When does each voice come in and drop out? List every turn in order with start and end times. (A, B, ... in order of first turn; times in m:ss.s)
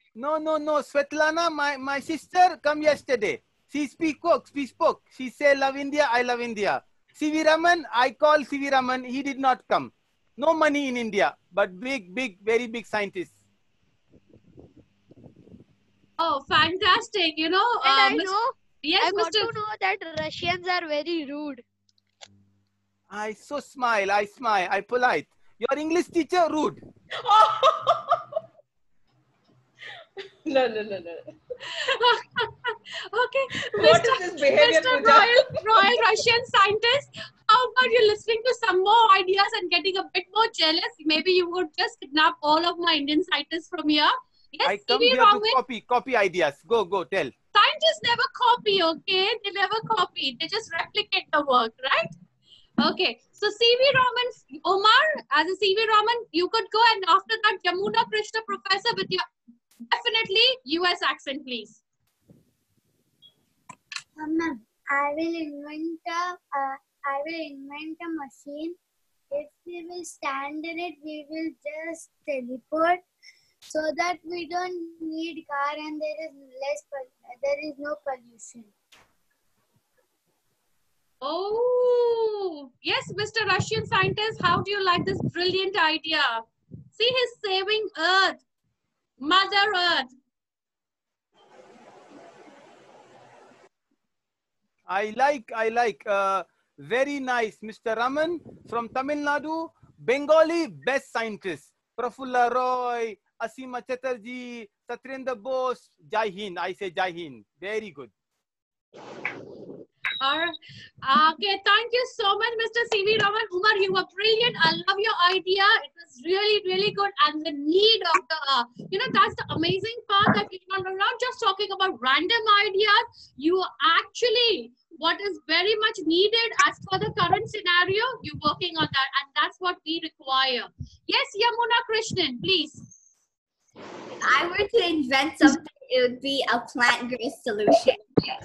0:00.2-0:13.3 A
0:16.2-0:19.5 B
0:17.8-0:21.6 C
0:23.1-0:26.8 A
0:27.2-0:28.4 D
0:30.4-0:31.4 D
0:31.7-0:45.6 B
0:33.7-0:36.0 D
0:44.6-0:47.3 A
0:47.5-0:52.1 B
0:52.8-0:59.3 B
0:59.9-1:01.8 B
1:04.7-1:06.1 E
1:06.8-1:08.5 E
1:09.5-1:12.8 E
1:14.9-1:15.4 E
1:21.2-1:26.4 B
1:26.9-1:28.4 B
1:29.2-1:30.1 B
1:34.9-1:48.1 A
1:50.2-2:12.8 B
2:14.3-2:18.0 F